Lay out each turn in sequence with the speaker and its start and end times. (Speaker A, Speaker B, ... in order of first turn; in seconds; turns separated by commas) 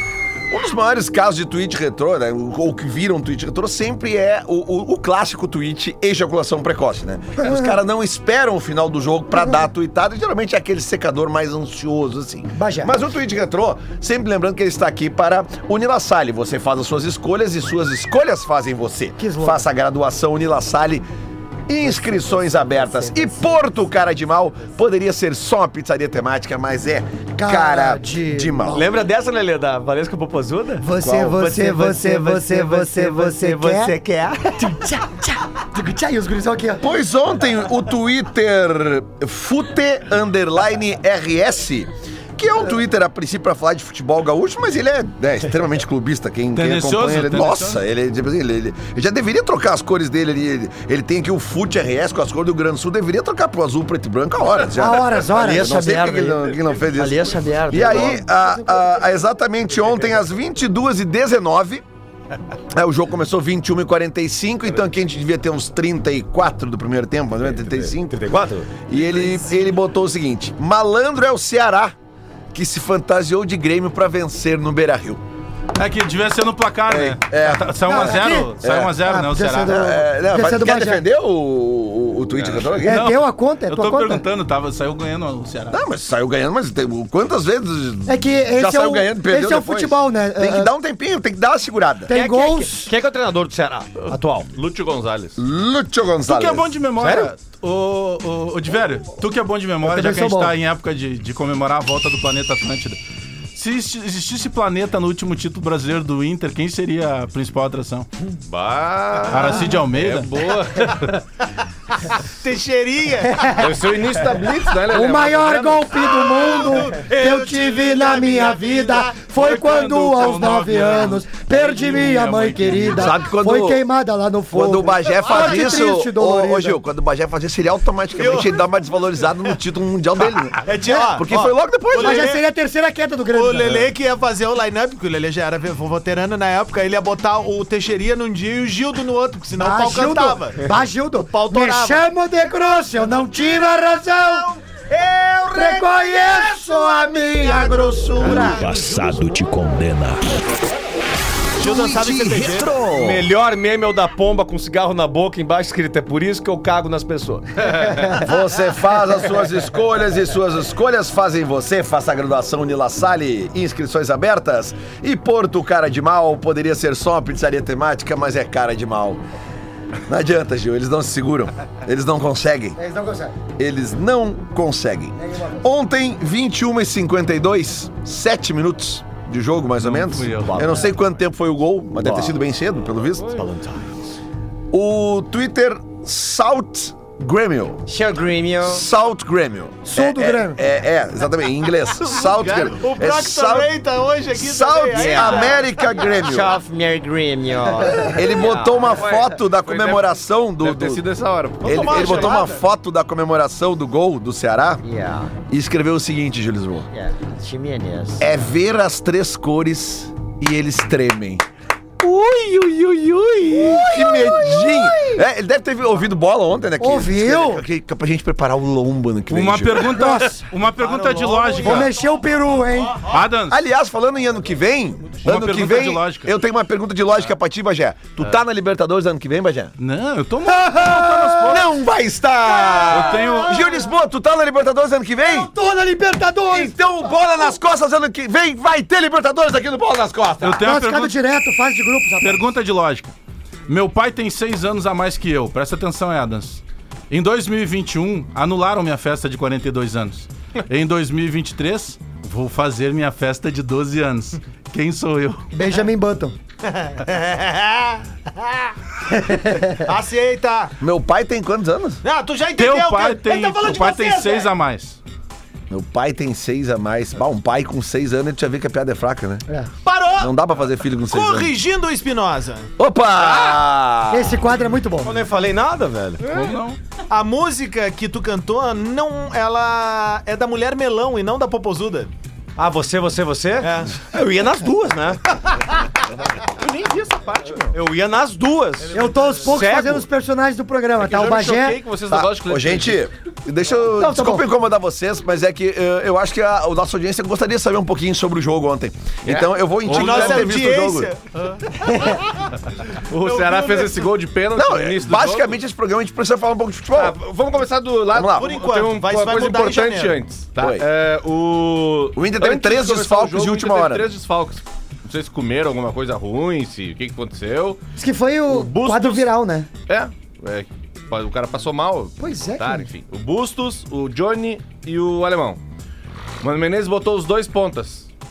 Speaker A: 0.5-21.0, Speaker B: 7.4-7.8, Speaker B: 12.6-12.9, Speaker B: 19.2-19.6, Speaker A: 21.7-28.9, Speaker B: 27.4-28.8, Speaker C: 28.7-35.2, Speaker B: 30.8-33.9, Speaker A: 31.0-31.4, Speaker B: 35.5-36.9, Speaker A: 36.8-61.8, Speaker D: 46.5-47.8, Speaker B: 54.7-55.7, Speaker C: 55.4-58.2, Speaker A: 62.7-68.2, Speaker C: 67.4-68.7, Speaker A: 68.9-71.9, Speaker E: 68.9-69.7, Speaker A: 72.5-75.2, Speaker D: 75.8-79.8, Speaker A: 76.9-79.0, Speaker B: 77.9-81.0, Speaker A: 79.6-83.1, Speaker F: 82.3-82.8, Speaker B: 82.8-84.2, Speaker D: 82.9-85.8, Speaker A: 85.7-92.1, Speaker B: 88.1-90.7, Speaker B: 92.1-92.9, Speaker C: 92.1-94.5, Speaker F: 94.5-95.4, Speaker A: 95.4-96.7, Speaker D: 96.2-103.0, Speaker C: 97.0-97.3, Speaker B: 99.8-100.5, Speaker D: 103.5-108.1, Speaker F: 108.4-111.2, Speaker D: 109.3-110.3, Speaker E: 112.1-113.5, Speaker B: 113.3-113.7, Speaker F: 113.5-115.9, Speaker B: 114.9-126.8, Speaker E: 116.1-119.3, Speaker D: 119.3-123.1, Speaker A: 122.9-123.8, Speaker A: 124.5-132.3, Speaker E: 125.2-125.6, Speaker E: 128.2-128.6, Speaker E: 130.2-132.4, Speaker B: 130.9-131.2, Speaker B: 132.0-133.9, Speaker E: 133.3-142.0, Speaker B: 139.6-144.5, Speaker E: 143.0-149.5, Speaker B: 145.5-148.7, Speaker G: 148.2-150.4, Speaker E: 151.6-152.8, Speaker G: 151.6-153.2, Speaker C: 152.9-158.1, Speaker A: 158.1-169.2, Speaker A: 170.1-172.8, Speaker B: 172.8-173.4, Speaker A: 173.6-183.4, Speaker B: 175.2-175.7, Speaker D: 179.8-180.7, Speaker C: 180.3-180.9, Speaker C: 182.0-182.3, Speaker C: 183.2-183.9, Speaker A: 184.7-187.8, Speaker C: 187.9-188.8, Speaker A: 188.6-193.7, Speaker B: 189.8-190.6, Speaker F: 192.1-192.8, Speaker E: 192.7-196.1, Speaker A: 194.3-196.6, Speaker C: 194.9-199.0, Speaker A: 197.9-201.0, Speaker F: 199.0-202.4, Speaker E: 201.6-202.6, Speaker A: 201.6-204.8, Speaker C: 204.8-205.3, Speaker A: 205.5-206.9, Speaker C: 206.9-208.4, Speaker A: 208.2-211.4, Speaker A: 212.0-220.0, Speaker B: 213.5-215.2, Speaker B: 216.8-217.6, Speaker D: 219.3-221.9, Speaker B: 219.9-220.5, Speaker E: 220.7-221.9, Speaker B: 221.6-223.1, Speaker D: 223.0-223.6, Speaker A: 223.5-229.7, Speaker D: 225.2-226.3, Speaker D: 229.8-231.7, Speaker B: 230.4-231.6, Speaker A: 231.4-235.5, Speaker B: 232.4-233.9, Speaker D: 232.9-233.6, Speaker B: 235.2-237.5, Speaker A: 236.5-240.7, Speaker D: 240.4-241.2, Speaker B: 240.6-242.4, Speaker D: 242.2-243.1, Speaker D: 243.7-255.4, Speaker B: 255.5-256.3, Speaker E: 256.6-258.7, Speaker B: 259.2-259.8, Speaker E: 259.8-260.7, Speaker A: 260.8-262.0, Speaker E: 262.0-264.5, Speaker D: 262.6-265.0, Speaker A: 265.7-269.4, Speaker E: 269.8-270.3, Speaker A: 270.2-271.5, Speaker E: 270.9-272.7, Speaker A: 272.8-274.5, Speaker B: 274.1-275.2, Speaker C: 275.0-276.2, Speaker D: 276.2-276.8, Speaker E: 277.1-282.1, Speaker C: 282.6-285.2, Speaker E: 283.6-283.9, Speaker F: 286.4-287.8, Speaker C: 287.7-290.1, Speaker E: 288.9-289.4, Speaker B: 288.9-291.8, Speaker F: 291.0-293.1, Speaker A: 292.1-301.1, Speaker B: 293.9-294.4, Speaker F: 299.2-300.4, Speaker E: 299.8-301.5, Speaker F: 302.9-305.6, Speaker E: 303.2-304.1, Speaker A: 304.5-307.1, Speaker F: 306.9-317.8, Speaker A: 308.1-308.5, Speaker E: 308.3-310.2, Speaker A: 310.6-310.8, Speaker A: 312.1-314.1, Speaker B: 318.0-319.7, Speaker F: 318.5-319.3, Speaker F: 319.9-325.6, Speaker B: 322.2-322.9, Speaker F: 326.4-328.1